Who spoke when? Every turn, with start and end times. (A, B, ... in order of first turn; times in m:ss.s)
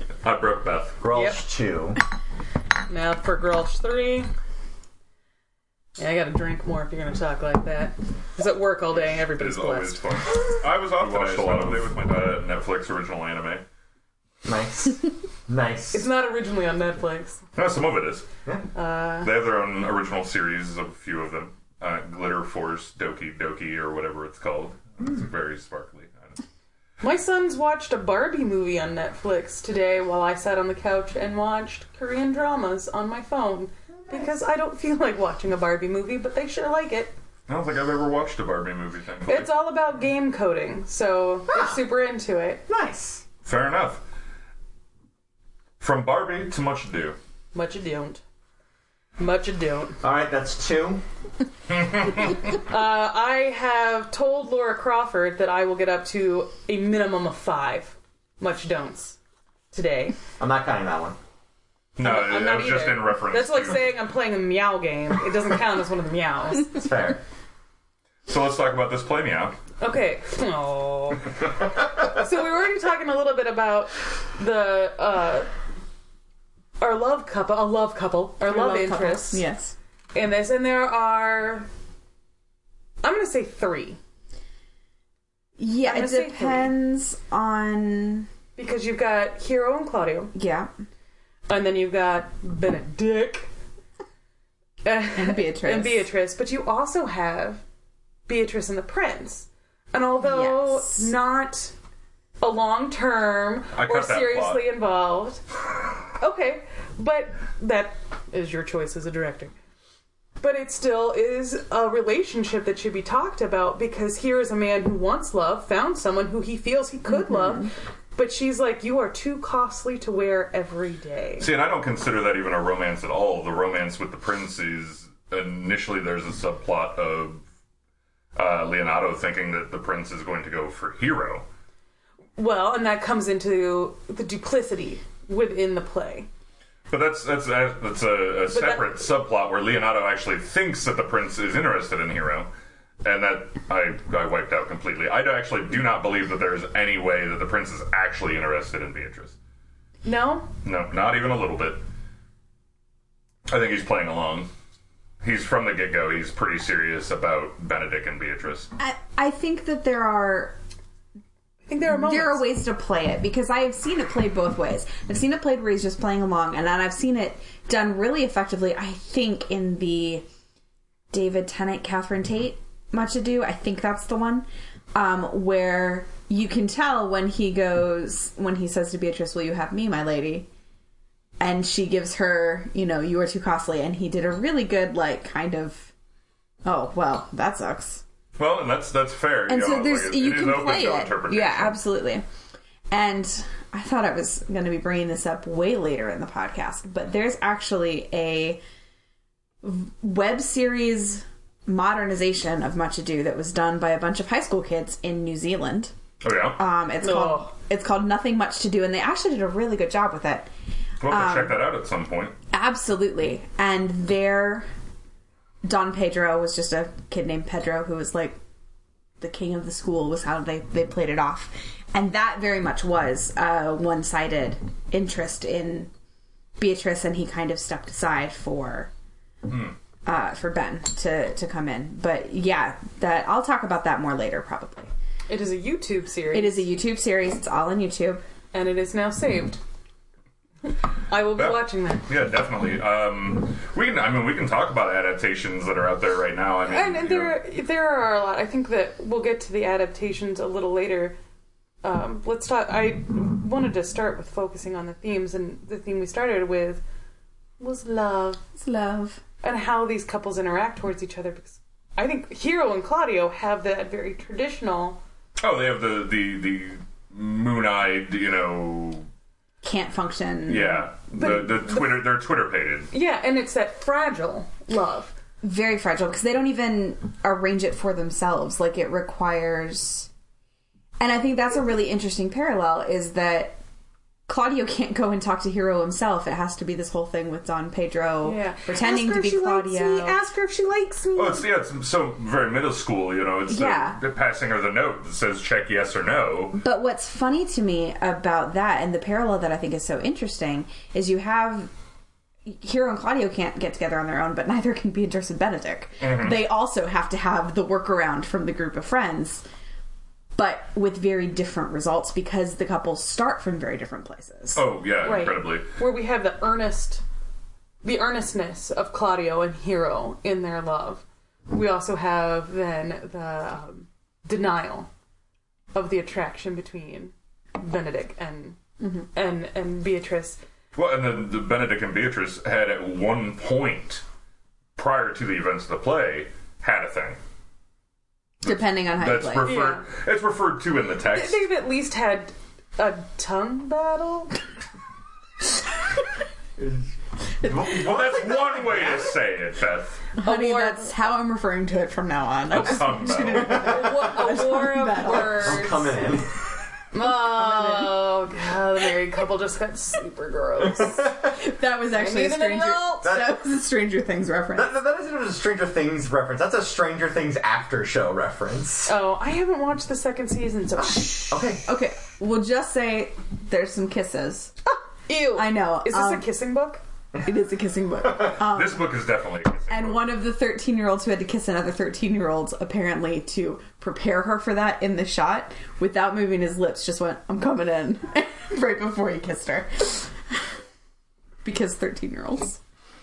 0:00.2-0:01.0 A
0:01.0-0:02.0 B
0:01.1-0:01.4 C
0:02.9-0:04.3 C
0:06.0-0:10.4 C
0:08.9-0:13.6 A
0:14.4-0:16.1 B
0:15.9-0:17.4 C
0:17.5-0:18.3 A
0:18.7-0:19.3 C
0:19.2-0:26.4 A
0:27.0-0:37.1 C
0:37.5-0:39.5 A
0:39.2-0:42.6 C
0:42.7-0:43.2 B
0:43.4-0:44.0 A
0:45.8-0:47.2 A
0:47.5-0:48.2 C
0:49.2-0:50.0 C
0:50.0-0:51.0 B
0:52.4-0:59.2 C
0:59.7-1:00.2 C
1:00.4-1:01.2 B
1:02.0-1:03.9 A
1:02.0-1:06.8 C
1:06.7-1:07.2 B
1:08.3-1:09.5 A
1:09.8-1:11.3 C
1:12.0-1:15.5 C
1:16.8-1:19.4 C
1:18.4-1:19.7 D
1:20.1-1:21.7 C
1:23.0-1:24.0 C
1:25.6-1:28.3 D
1:25.8-1:26.8 C
1:28.6-1:30.3 C
1:30.3-1:30.7 D
1:31.5-1:33.5 C
1:34.8-1:37.6 C
1:35.1-1:36.0 D
1:38.3-1:41.7 C
1:40.2-1:41.1 D
1:42.4-1:45.4 C
1:43.7-1:44.6 A
1:46.2-1:49.5 C
1:50.4-2:01.5 C
1:57.1-1:57.7 D
2:01.4-2:07.4 A
2:08.4-2:11.4 A
2:12.4-2:16.3 C
2:16.9-2:22.5 A
2:18.5-2:18.9 C
2:23.0-2:29.4 A
2:30.0-2:30.5 C
2:30.6-2:31.8 A
2:33.5-2:34.5 A
2:35.2-2:38.7 A
2:38.8-2:40.6 D
2:41.7-2:42.5 C
2:41.9-2:50.2 D
2:51.1-3:00.5 D
3:01.4-3:05.9 D
3:06.6-3:08.0 D
3:08.4-3:11.8 A
3:09.5-3:12.2 D
3:12.9-3:18.6 D
3:19.6-3:25.9 D
3:26.2-3:26.6 A
3:26.6-3:30.5 D
3:27.0-3:27.5 C
3:31.0-3:32.4 A
3:31.0-3:31.6 D
3:32.5-3:34.7 D
3:35.6-3:38.4 D
3:39.2-3:45.9 D
3:46.6-3:48.9 D
3:49.5-3:49.7 A
3:50.0-3:54.9 D
3:55.3-3:56.7 C
3:56.3-3:58.2 D
3:58.5-3:59.6 C
4:01.1-4:02.0 C
4:01.3-4:07.4 A
4:06.6-4:11.2 C
4:11.8-4:16.8 C
4:17.6-4:18.4 C
4:18.6-4:19.2 D
4:19.4-4:25.0 C
4:25.4-4:29.0 A
4:29.6-4:30.8 D
4:30.4-4:32.9 A
4:31.1-4:32.1 C
4:32.9-4:35.1 C
4:35.4-4:40.1 D
4:41.0-4:43.6 D
4:44.3-4:50.2 D
4:48.2-4:51.4 C
4:51.2-4:56.6 A
4:53.5-4:54.0 D
4:56.5-5:01.7 D
5:02.4-5:09.4 D
5:06.0-5:06.5 A
5:10.4-5:14.6 D
5:14.5-5:15.6 A
5:15.0-5:17.0 C
5:17.8-5:24.9 C
5:25.7-5:28.6 C
5:29.1-5:30.4 C
5:30.7-5:34.0 A
5:34.8-5:37.2 A
5:38.4-5:39.5 D
5:38.4-5:41.4 A
5:39.4-5:39.8 C
5:41.1-5:44.4 C
5:47.4-5:48.5 D
5:47.4-5:48.8 B
5:47.5-5:50.0 A
5:50.2-5:50.9 C
5:50.2-5:55.8 D
5:52.5-5:54.0 A
5:53.5-5:55.9 C
5:55.2-5:56.3 B
5:56.9-6:01.1 C
5:57.0-5:57.9 D
6:00.8-6:01.3 B
6:01.3-6:04.7 D
6:01.9-6:03.1 C
6:03.0-6:03.3 B
6:04.5-6:08.9 B
6:08.9-6:11.4 C
6:11.3-6:11.6 B
6:11.6-6:14.5 D
6:15.1-6:16.8 C
6:15.3-6:16.3 D
6:17.2-6:18.9 D
6:18.4-6:20.0 A
6:19.7-6:30.4 D
6:31.4-6:32.6 D